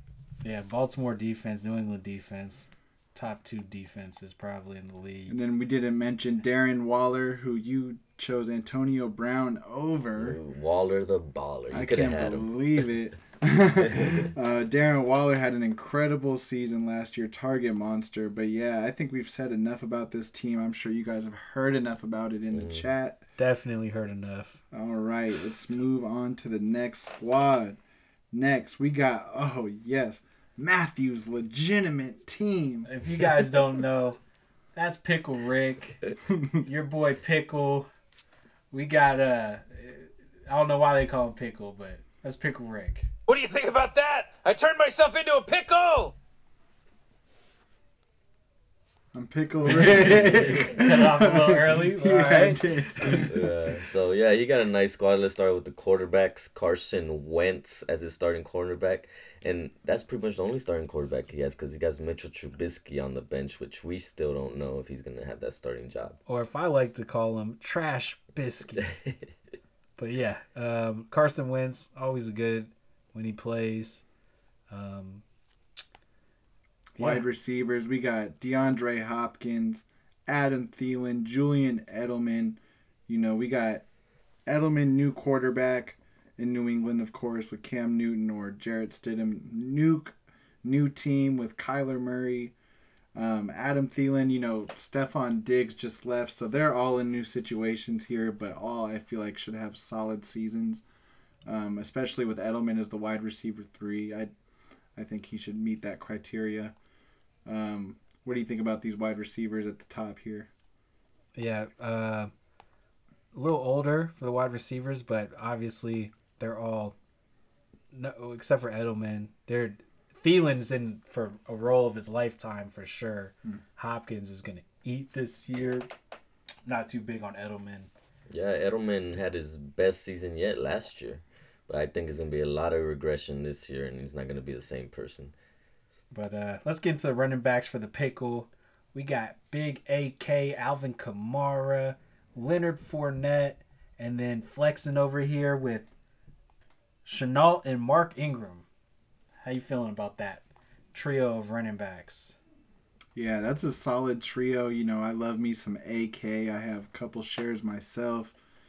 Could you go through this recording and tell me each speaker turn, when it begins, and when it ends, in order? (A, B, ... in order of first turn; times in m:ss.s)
0:00.4-0:05.4 A
0:05.3-0:10.4 B
0:10.2-0:12.9 C
0:11.7-0:23.2 B
0:13.9-0:14.3 C
0:22.5-0:22.8 C
0:23.4-0:24.6 A
0:24.7-0:27.8 B
0:28.3-0:32.9 B
0:32.9-0:34.2 A
0:34.8-0:36.0 A
0:36.3-0:36.6 B
0:36.6-0:37.9 A
0:38.7-0:43.1 A
0:43.3-0:46.1 D
0:49.1-0:53.5 B
0:49.7-0:50.5 C
0:50.1-0:53.3 A
0:53.3-1:06.2 C
1:06.3-1:08.9 A
1:08.8-1:09.2 C
1:10.0-1:14.0 A
1:14.7-1:15.2 A
1:17.0-1:23.8 B
1:17.0-1:17.2 A
1:24.5-1:32.5 B
1:33.2-1:40.8 B
1:41.4-1:44.3 B
1:45.0-1:46.8 B
1:47.5-1:50.5 B
1:51.4-1:52.3 A
1:53.3-1:57.0 A
1:57.9-2:05.9 A
2:06.7-2:07.9 A
2:08.3-2:15.3 C
2:16.1-2:25.9 A
2:27.1-2:28.7 A
2:29.4-2:32.4 A
2:33.2-2:38.4 B